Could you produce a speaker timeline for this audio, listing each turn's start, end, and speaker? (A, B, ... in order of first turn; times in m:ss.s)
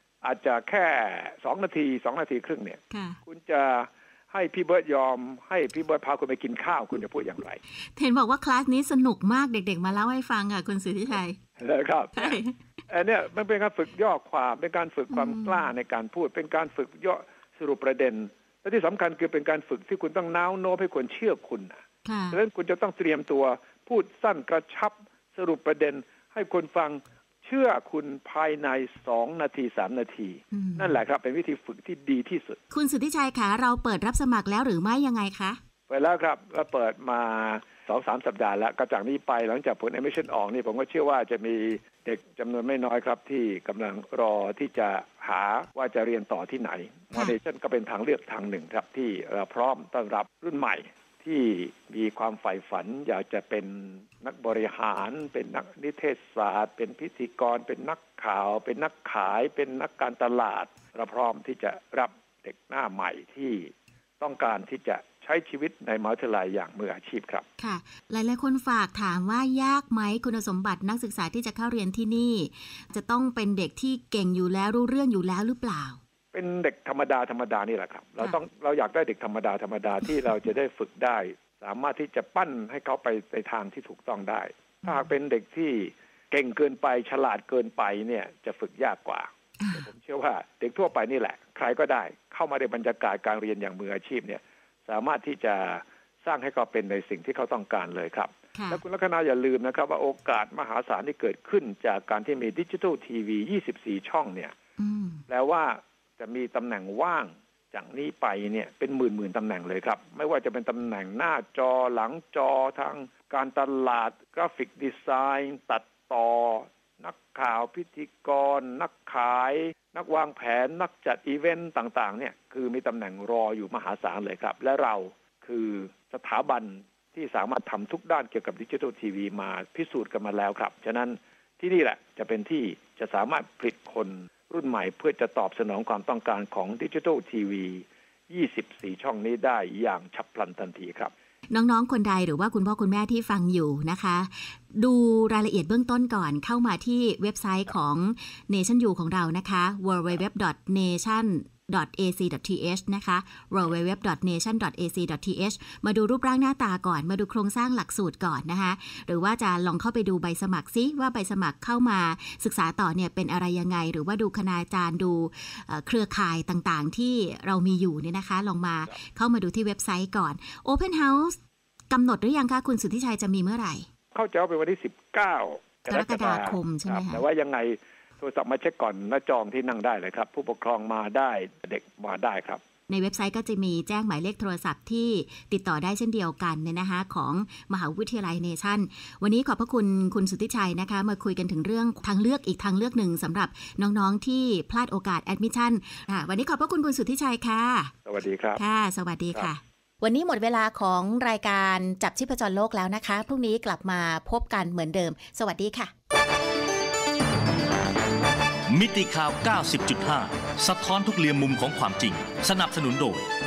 0:00.2-0:07.6 A
0:02.9-0:03.2 B
0:07.9-0:11.4 B
0:11.6-0:21.8 A
0:12.2-0:12.6 B
0:15.1-0:15.7 B
0:22.0-0:22.4 B
0:22.3-0:32.6 A
0:30.5-0:31.0 B
0:32.7-0:35.6 B
0:35.9-1:07.4 A
1:07.6-1:16.0 B
1:16.3-1:44.5 A
1:29.6-1:29.8 B
1:38.6-1:38.8 B
1:44.8-1:45.2 B
1:45.3-2:21.1 A
2:21.5-2:51.4 B
2:51.9-2:53.9 B
2:54.1-3:02.6 A
2:55.9-2:57.2 B
3:02.9-3:17.9 B
3:18.0-3:18.6 A
3:18.6-3:25.9 B
3:28.7-3:33.3 C